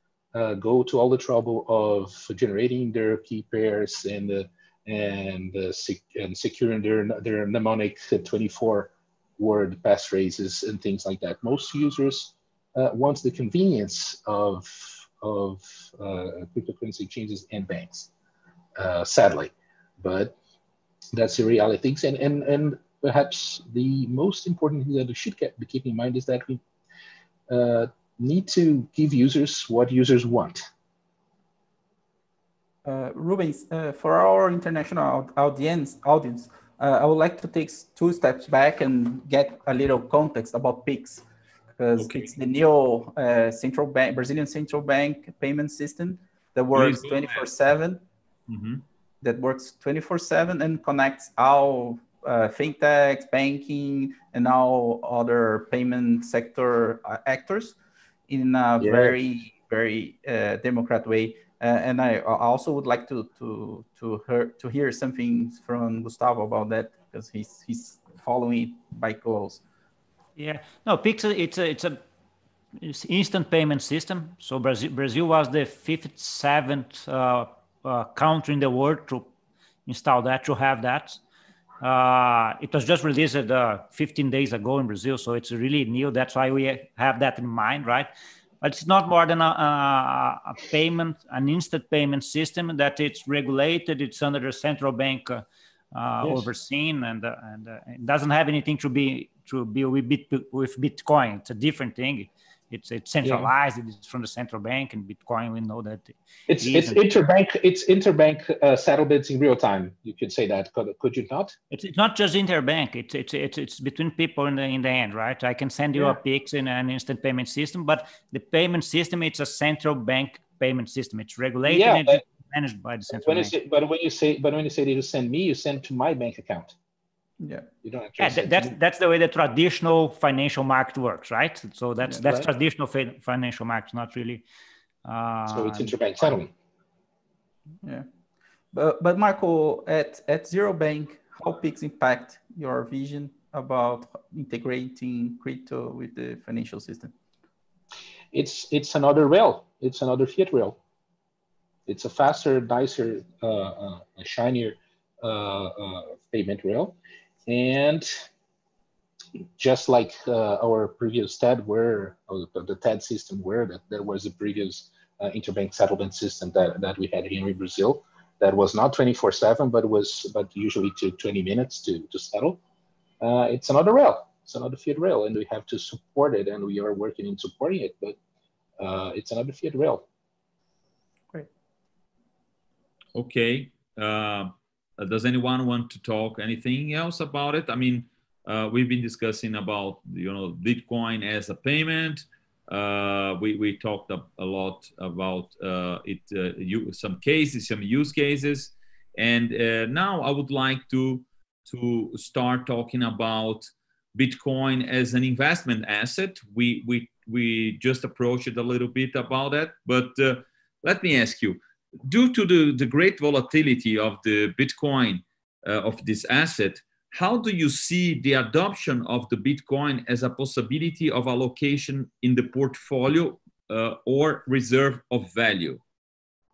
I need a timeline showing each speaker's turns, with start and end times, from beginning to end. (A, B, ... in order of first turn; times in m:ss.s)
0:00.3-0:18.1 A
0:18.8-0:20.3 A
0:21.1-0:26.6 A
0:27.5-0:30.6 A
0:32.8-0:41.2 B
0:41.8-0:48.0 B
0:42.0-0:42.3 C
0:46.7-0:47.5 C
0:48.5-0:48.8 C
0:49.2-0:57.8 B
0:58.3-1:09.6 B
0:58.8-0:59.2 A
1:10.4-1:12.0 D
1:12.8-1:19.3 D
1:19.8-1:21.2 D
1:21.8-1:28.1 D
1:28.6-1:47.0 D
1:43.2-1:43.5 A
1:46.5-1:51.6 A
1:51.7-2:03.5 D
2:01.6-2:02.2 A
2:03.1-2:06.8 A
2:07.4-2:07.6 B
2:07.8-2:08.7 A
2:08.2-2:14.4 D
2:15.0-2:15.9 D
2:15.5-2:16.5 A
2:18.7-2:27.1 B
2:28.3-2:30.8 A
2:31.9-2:37.0 A
2:37.5-2:38.1 A
2:39.6-2:52.6 A
2:53.2-2:58.2 A
2:58.8-3:00.0 A
3:03.1-3:45.8 C